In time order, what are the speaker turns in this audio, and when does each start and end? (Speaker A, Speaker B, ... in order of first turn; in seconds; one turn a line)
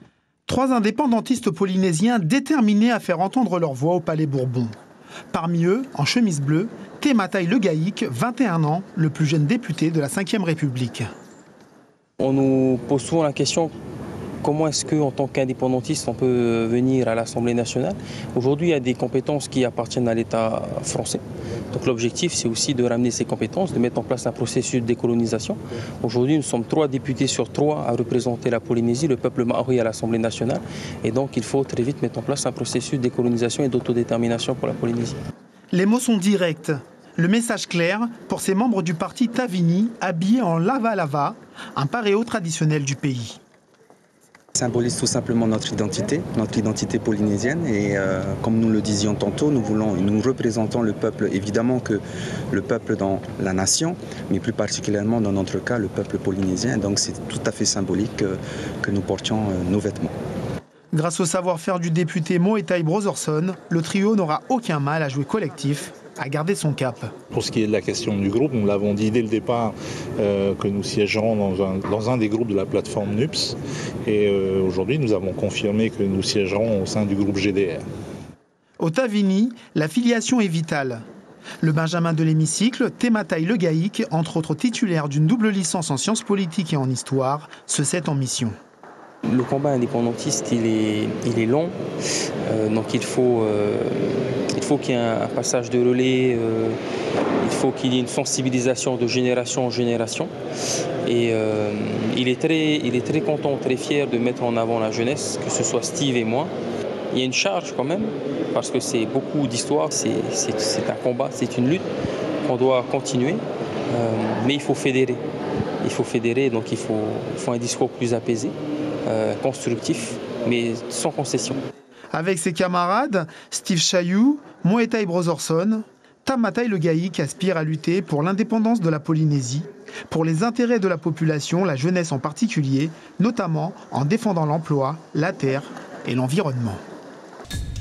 Speaker A: 0.5-4.8
Speaker A: 5.3-11.1
Speaker B: 12.2-13.7
Speaker B: 14.4-35.2
Speaker A: 35.7-43.4
Speaker C: 44.5-60.1
Speaker A: 60.9-67.1
Speaker D: 67.3-77.8
Speaker A: 78.8-81.0
Speaker A: 81.6-88.5
Speaker B: 89.2-91.8
Speaker B: 92.5-96.8
Speaker B: 97.4-100.3
Speaker B: 101.0-106.5
Speaker B: 107.1-111.8
Speaker B: 112.4-115.2
Speaker B: 115.8-118.5
Speaker B: 119.0-121.6
Speaker A: 122.1-136.8